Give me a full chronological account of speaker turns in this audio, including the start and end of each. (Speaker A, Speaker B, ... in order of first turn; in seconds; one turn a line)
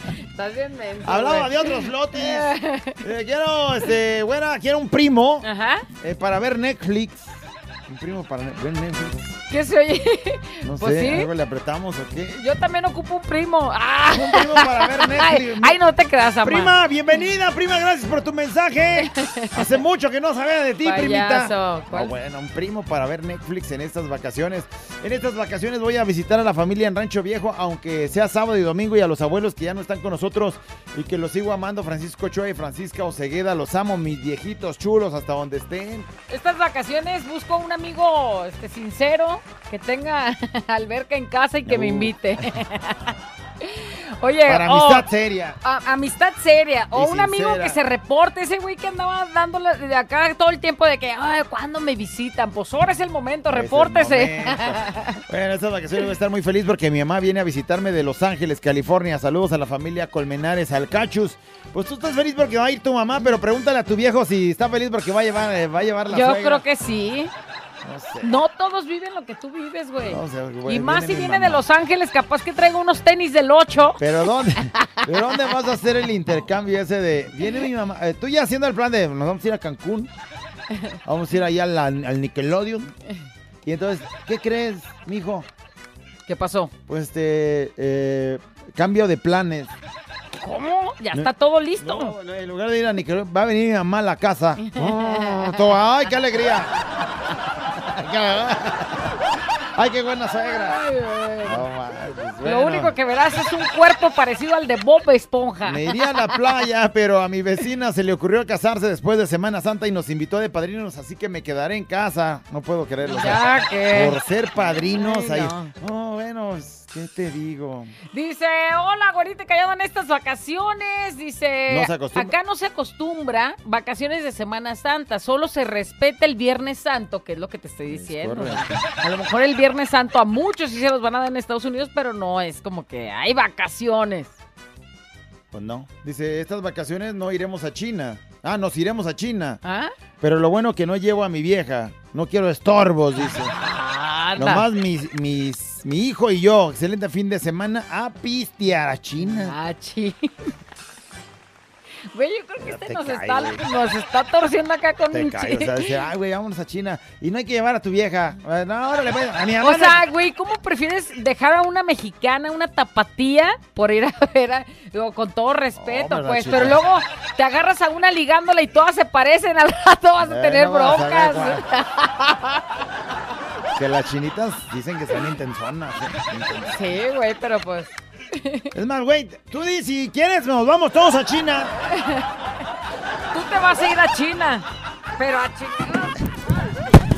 Speaker A: 0.3-3.0
Speaker B: 1.0-5.5
Speaker A: 5.4-5.8
Speaker B: 6.0-9.4
Speaker A: 9.5-11.3
Speaker B: 10.7-12.4
Speaker A: 12.4-16.8
Speaker B: 14.1-15.8
Speaker B: 16.4-36.1
Speaker A: 19.0-19.6
Speaker A: 20.8-22.1
Speaker A: 36.3-43.0
Speaker B: 41.7-42.5
Speaker A: 43.6-45.1
Speaker B: 44.5-45.6
Speaker A: 45.6-55.2
Speaker B: 46.9-47.8
Speaker B: 53.5-66.7
Speaker A: 66.1-67.3
Speaker B: 67.8-68.4
Speaker A: 68.2-74.0
Speaker B: 70.1-71.7
Speaker B: 74.0-80.1
Speaker B: 81.0-82.9
Speaker B: 83.7-85.5
Speaker A: 86.3-86.7
Speaker B: 86.9-89.7
Speaker A: 90.4-92.2
Speaker B: 91.1-96.7
Speaker A: 94.6-95.7
Speaker B: 97.6-99.2
Speaker B: 99.8-100.8
Speaker A: 100.5-101.7
Speaker B: 101.5-102.9
Speaker A: 102.4-106.3
Speaker B: 105.6-117.9
Speaker A: 113.0-115.7
Speaker A: 118.1-134.4
Speaker B: 121.7-122.3
Speaker B: 127.8-128.8
Speaker B: 135.5-139.6
Speaker A: 139.6-139.9
Speaker B: 140.2-143.5
Speaker A: 143.4-144.7
Speaker B: 144.4-149.6
Speaker A: 149.2-150.5
Speaker A: 152.1-155.9
Speaker B: 152.6-153.6
Speaker B: 155.1-160.0
Speaker A: 159.6-172.6
Speaker B: 165.8-166.8
Speaker B: 170.2-171.6
Speaker B: 173.8-176.8
Speaker A: 176.7-178.7
Speaker B: 178.7-181.7
Speaker A: 181.9-182.2
Speaker A: 183.3-184.7
Speaker A: 185.2-186.2